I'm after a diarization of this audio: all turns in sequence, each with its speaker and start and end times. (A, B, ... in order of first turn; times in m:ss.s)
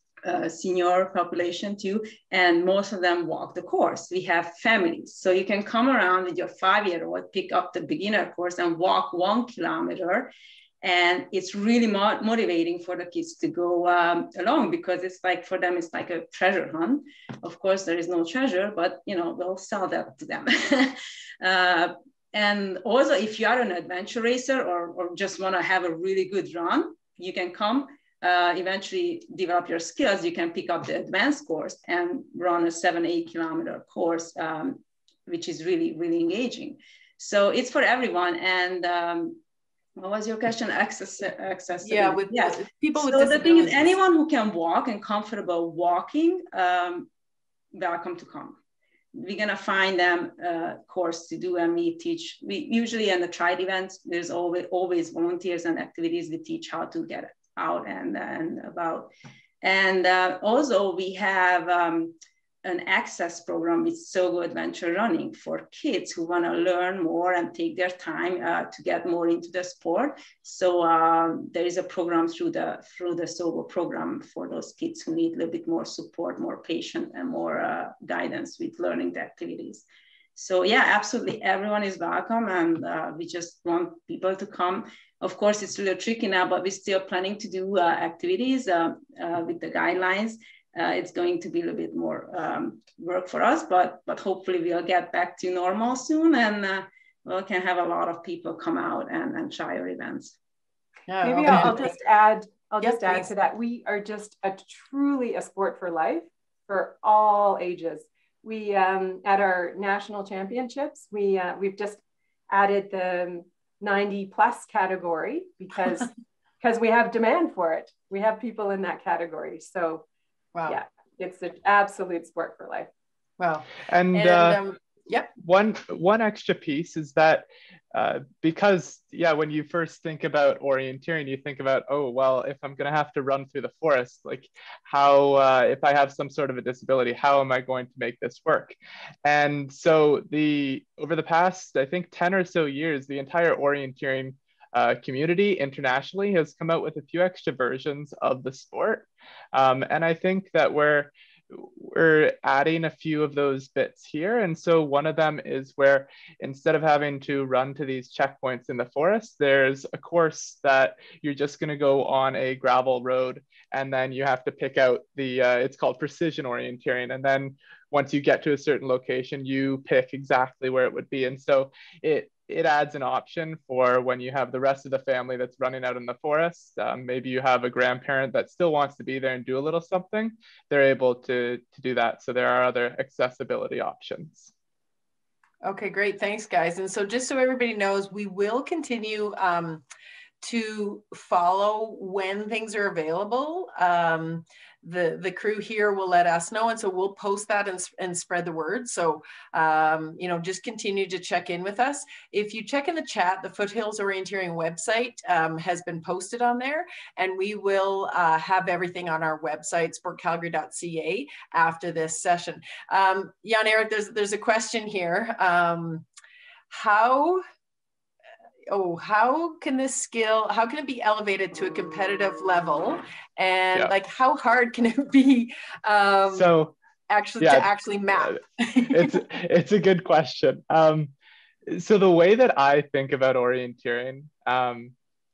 0:00.2-0:39.4 A
0:40.0-0:47.1 A
0:41.8-0:44.0 B
0:47.7-0:48.6 A
0:49.1-1:19.8 A
1:20.4-1:40.4 A
1:41.1-1:41.9 B
1:41.2-2:00.0 C
1:42.8-1:43.3 B
2:00.6-2:00.8 B
2:00.7-2:02.9 C
2:03.4-2:05.3 B
2:03.9-2:04.6 D
2:05.4-3:04.5 D
3:05.6-3:09.8 B
3:10.4-3:36.1 B
3:36.7-3:37.4 B
3:38.7-3:46.5 B
3:46.3-3:46.8 D
3:47.1-3:49.2 B
3:47.4-3:47.7 D
3:48.2-3:51.1 D
3:51.7-3:54.9 D